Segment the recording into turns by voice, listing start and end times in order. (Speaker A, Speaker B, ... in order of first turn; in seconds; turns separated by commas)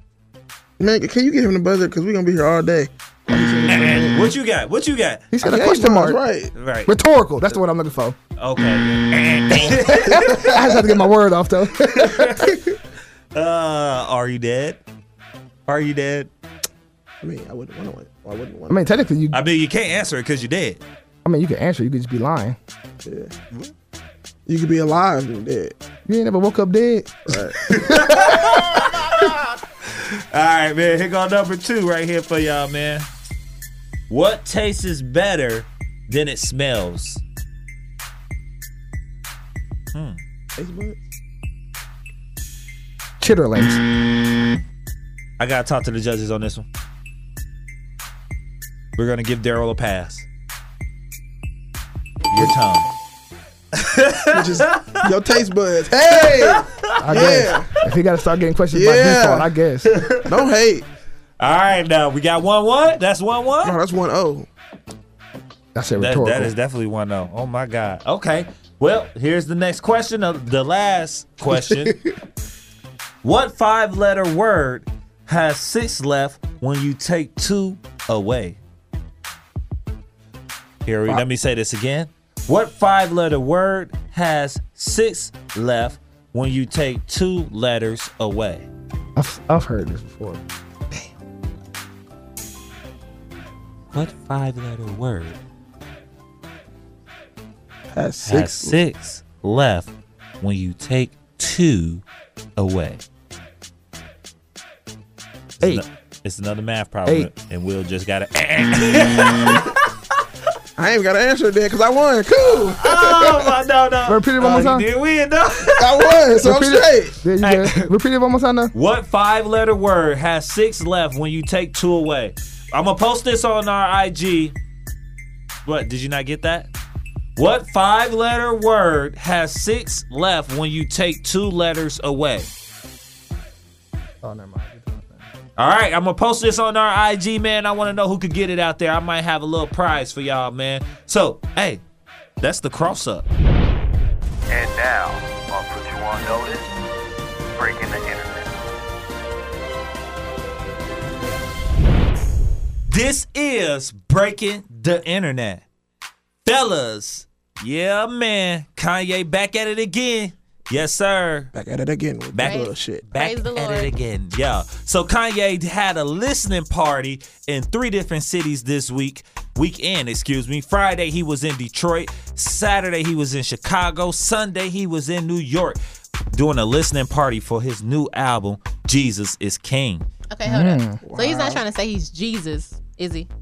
Speaker A: 0.8-4.2, Speaker B: 3.3-4.2, Speaker C: 3.7-5.3, Speaker B: 5.3-6.2, Speaker A: 5.4-6.5, Speaker C: 6.5-6.9, Speaker B: 6.9-8.2, Speaker C: 8.4-10.6, Speaker B: 9.6-12.6, Speaker C: 11.9-12.6, Speaker C: 13.3-14.8, Speaker C: 15.7-16.3, Speaker A: 17.2-18.8, Speaker B: 18.7-19.4, Speaker C: 19.3-20.8, Speaker B: 21.2-22.6, Speaker A: 23.1-23.3, Speaker A: 24.5-25.8, Speaker B: 26.1-27.4, Speaker A: 27.3-27.6, Speaker C: 27.6-33.1, Speaker C: 34.1-37.2, Speaker C: 39.9-40.2, Speaker A: 40.6-41.0, Speaker B: 43.2-43.8, Speaker C: 45.4-46.7, Speaker C: 49.0-50.2, Speaker C: 52.3-52.9, Speaker C: 53.7-55.0, Speaker A: 54.3-57.7, Speaker C: 56.2-57.3, Speaker B: 57.0-59.9, Speaker A: 58.7-59.5, Speaker C: 59.9-60.3, Speaker A: 60.3-60.9, Speaker C: 61.4-63.8, Speaker A: 63.6-64.5, Speaker B: 65.8-66.5, Speaker C: 66.0-72.0, Speaker A: 71.7-72.1, Speaker C: 73.2-78.6, Speaker C: 80.8-88.7, Speaker B: 89.2-91.1, Speaker C: 93.9-95.4, Speaker A: 97.9-98.8, Speaker C: 98.2-102.0, Speaker C: 102.6-103.0, Speaker C: 105.6-109.8, Speaker A: 110.8-113.4, Speaker C: 112.8-116.1, Speaker B: 114.1-114.9, Speaker A: 115.8-117.2, Speaker B: 116.4-118.7, Speaker C: 117.4-117.9, Speaker C: 118.7-124.5, Speaker C: 125.7-126.7, Speaker C: 127.4-132.5, Speaker B: 134.2-135.2, Speaker C: 135.6-141.8, Speaker C: 142.4-143.3, Speaker D: 144.5-146.7, Speaker D: 147.5-148.6, Speaker C: 152.9-155.6, Speaker C: 156.4-161.5, Speaker A: 161.5-163.0, Speaker C: 162.3-175.8, Speaker E: 162.4-163.9, Speaker C: 176.3-180.1, Speaker E: 180.3-183.3, Speaker B: 180.4-181.0, Speaker A: 181.0-181.6